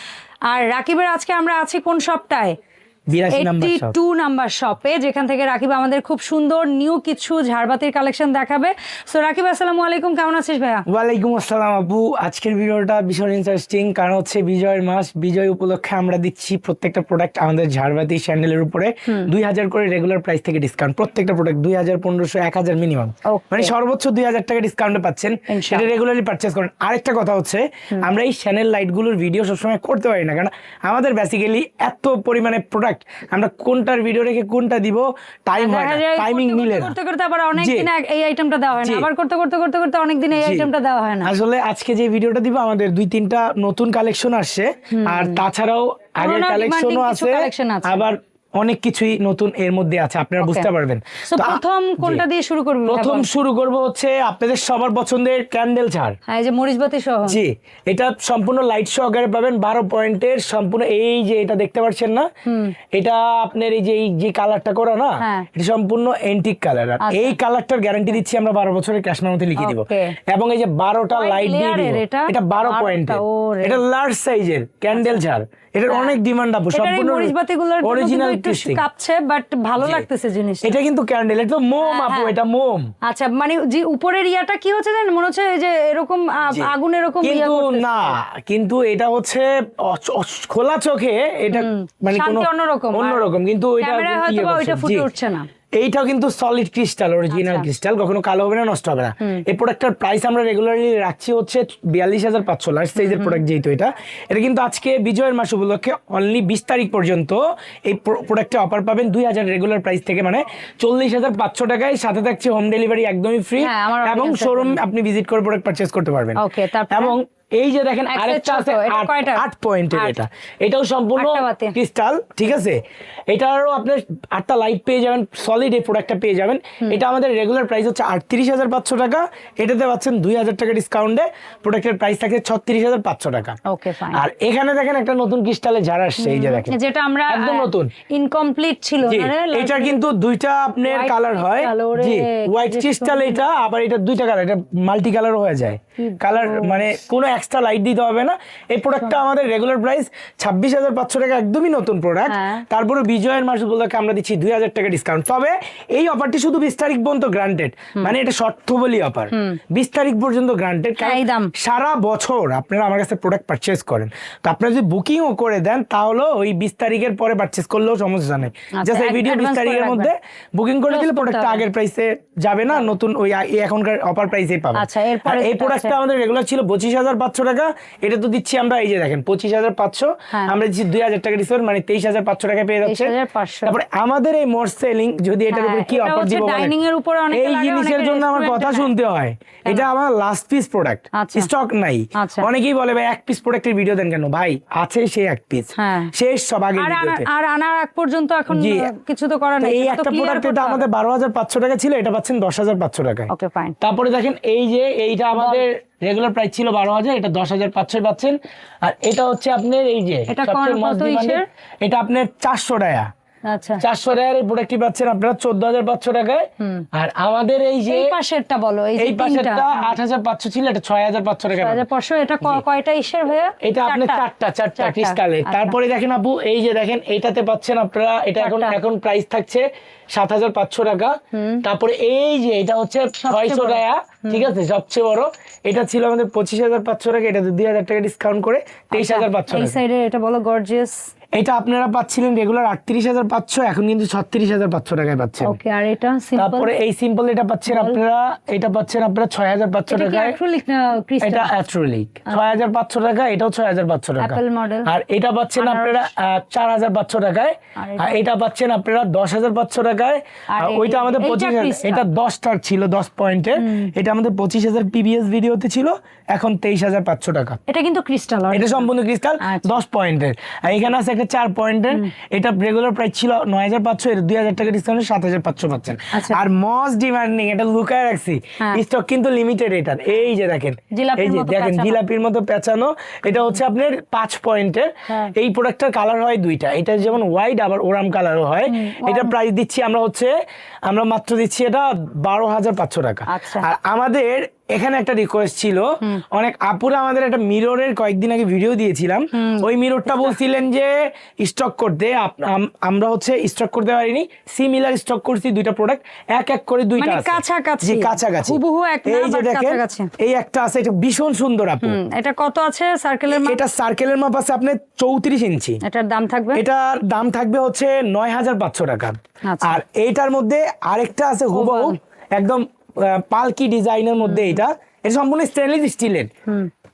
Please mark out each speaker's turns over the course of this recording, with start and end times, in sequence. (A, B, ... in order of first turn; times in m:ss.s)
0:00.5-0:02.6 A
0:03.1-0:03.9 B
0:03.3-0:10.8 A
0:10.9-0:36.9 B
0:23.3-0:23.7 A
0:25.5-0:25.9 A
0:35.6-0:41.3 A
0:37.6-0:37.9 B
0:38.8-0:39.1 B
0:40.4-0:40.7 B
0:41.2-0:52.2 B
0:44.9-0:45.4 A
0:46.2-0:48.1 A
0:50.4-0:50.7 A
0:51.3-0:53.3 A
0:52.9-0:56.2 B
0:56.3-0:57.4 A
0:57.2-1:02.3 B
1:02.4-1:02.7 A
1:02.9-1:18.8 B
1:05.2-1:05.5 A
1:07.0-1:07.4 A
1:09.6-1:10.2 A
1:11.1-1:13.8 A
1:14.9-1:15.2 A
1:15.9-1:16.2 A
1:16.7-1:20.8 A
1:19.8-1:20.1 B
1:20.6-1:22.9 B
1:21.8-1:22.3 A
1:23.0-1:28.2 A
1:26.4-1:26.7 B
1:27.2-1:35.1 B
1:31.5-1:33.2 A
1:33.8-1:35.5 A
1:35.8-1:56.4 B
1:37.3-1:37.7 A
1:43.0-1:43.4 A
1:53.6-1:54.8 A
1:56.4-1:57.2 A
1:56.9-2:13.6 B
1:58.1-2:00.2 A
2:01.2-2:01.8 A
2:13.7-2:14.2 A
2:14.1-2:16.8 B
2:16.2-2:20.1 A
2:17.3-2:17.9 B
2:19.0-3:03.1 B
2:20.8-2:23.5 A
2:26.0-2:26.8 A
2:32.3-2:32.6 A
2:39.3-2:39.6 A
2:41.0-2:41.5 A
2:48.8-2:50.1 A
2:50.9-2:51.6 A
2:54.7-2:56.0 A
3:02.8-3:03.7 A
3:03.6-3:06.8 B
3:05.5-3:08.9 A
3:07.3-3:17.3 B
3:11.1-3:11.5 A
3:12.1-3:12.5 A
3:15.8-3:16.1 A
3:16.8-3:20.9 A
3:18.5-3:18.9 B
3:19.6-3:23.3 B
3:23.3-3:23.8 A
3:23.8-3:33.1 B
3:25.4-3:25.6 A
3:30.3-3:31.4 A
3:33.5-3:33.8 A
3:33.8-3:38.1 B
3:36.6-3:36.8 A
3:37.9-3:39.9 A
3:39.0-3:41.8 B
3:41.5-3:44.2 A
3:43.6-3:59.8 B
3:44.8-3:45.8 A
3:48.4-3:48.8 A
3:51.3-3:51.6 A
3:53.2-3:54.5 A
3:58.9-4:01.0 A
4:01.3-4:05.5 B
4:05.4-4:06.7 A
4:06.4-4:10.4 B
4:07.7-4:08.0 A
4:09.9-4:11.5 A
4:11.2-4:27.6 B
4:12.3-4:12.6 A
4:14.2-4:14.9 A
4:15.6-4:16.1 A
4:17.8-4:18.2 A
4:20.5-4:22.0 A
4:23.6-4:23.9 A
4:27.7-4:29.8 A
4:28.5-4:50.3 B
4:36.1-4:36.4 A
4:40.9-4:42.0 A
4:43.3-4:43.6 A
4:48.7-4:49.3 A
4:50.9-5:12.0 B
4:53.3-4:53.6 A
4:59.3-5:00.4 A
5:07.0-5:10.1 A
5:11.8-5:13.6 A
5:13.3-5:15.8 B
5:15.8-5:16.6 A
5:16.5-5:26.3 B
5:19.4-5:19.8 A
5:21.5-5:22.0 A
5:24.2-5:24.6 A